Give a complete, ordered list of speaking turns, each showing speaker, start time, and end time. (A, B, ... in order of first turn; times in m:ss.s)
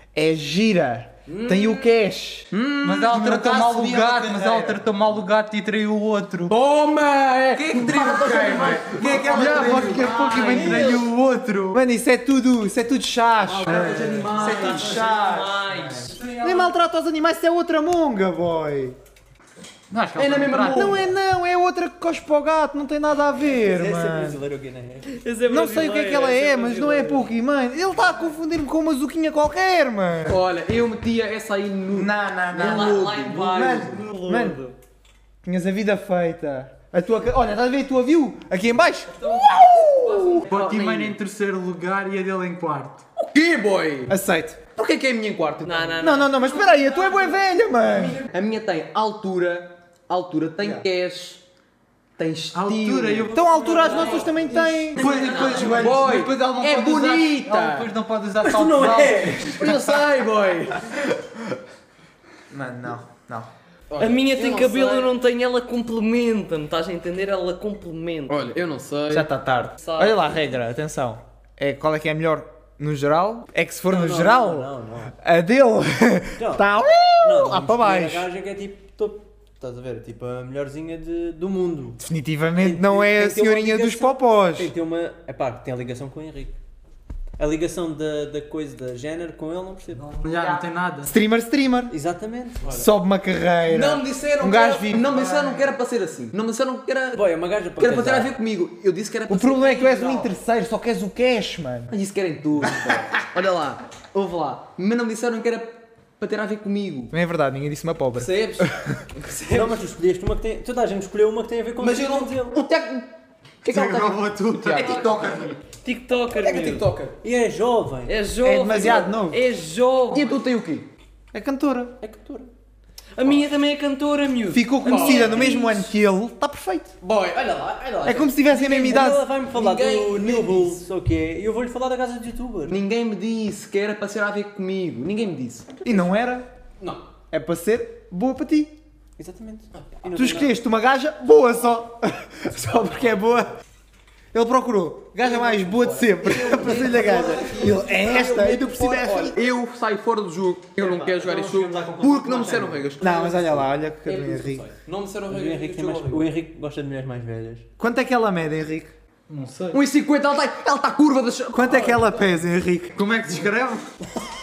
0:00.1-0:02.5 A
0:01.3-0:01.9 B
0:02.5-0:04.8 B
0:02.8-0:06.6 C
0:06.5-0:11.1 B
0:07.5-0:11.8 C
0:08.4-0:11.0 A
0:11.7-0:15.5 A
0:13.4-0:15.2 B
0:13.6-0:16.7 C
0:14.4-0:16.4 D
0:16.4-0:19.0 A
0:19.9-0:21.0 C
0:20.2-0:21.1 B
0:20.7-0:24.4 A
0:23.6-0:25.2 E
0:25.1-0:27.3 D
0:25.5-0:30.4 A
0:30.2-0:34.1 B
0:31.9-0:34.6 A
0:32.5-0:34.8 D
0:35.4-0:40.5 A
0:39.2-0:40.4 D
0:40.4-0:41.2 B
0:40.4-0:43.0 C
0:43.2-0:44.2 B
0:44.1-0:44.6 A
0:44.7-0:46.1 B
0:45.6-0:47.4 D
0:46.0-0:48.2 A
0:48.0-0:51.4 B
0:52.2-0:57.9 B
0:52.5-1:00.0 C
0:53.3-0:55.0 A
0:53.4-0:54.4 D
0:55.0-0:55.9 D
0:58.4-0:59.7 E
0:59.5-1:01.1 B
1:02.5-1:03.5 A
1:03.9-1:05.1 B
1:04.0-1:08.6 D
1:08.3-1:09.3 B
1:09.1-1:18.3 A
1:09.8-1:10.2 D
1:13.9-1:15.2 E
1:16.4-1:16.7 E
1:17.2-1:22.0 E
1:22.0-1:24.7 A
1:22.6-1:26.6 E
1:27.4-1:30.1 E
1:30.0-1:31.1 C
1:31.0-1:31.9 A
1:31.9-1:32.8 E
1:32.6-1:35.3 A
1:33.7-1:37.3 B
1:35.0-1:35.7 C
1:37.1-1:38.3 E
1:37.8-1:40.3 B
1:39.3-1:41.9 A
1:41.9-1:47.1 B
1:47.1-1:49.0 A
1:48.2-1:49.8 B
1:49.5-1:52.6 E
1:51.8-1:53.1 B
1:53.6-1:55.5 B
1:53.7-1:55.4 C
1:54.7-1:56.9 D
1:56.3-1:57.2 B
1:57.2-1:58.1 E
1:58.1-2:00.4 D
1:58.4-1:59.4 A
2:00.1-2:00.9 B
2:01.3-2:02.0 A
2:02.0-2:02.5 E
2:03.2-2:05.9 D
2:04.5-2:07.0 A
2:04.8-2:05.8 B
2:07.0-2:10.8 B
2:08.0-2:09.3 A
2:08.5-2:12.8 E
2:12.7-2:15.7 B
2:15.8-2:16.5 A
2:16.8-2:17.0 B
2:17.3-2:18.8 A
2:19.2-2:20.6 E
2:19.8-2:20.1 B
2:20.1-2:23.5 A
2:24.3-2:29.4 A
2:25.2-2:36.3 B
2:26.5-2:27.9 E
2:30.8-2:37.7 E
2:33.0-2:34.7 A
2:37.8-2:38.9 A
2:39.3-2:39.8 C
2:39.7-2:42.2 B
2:41.5-2:43.0 A
2:43.0-2:44.1 C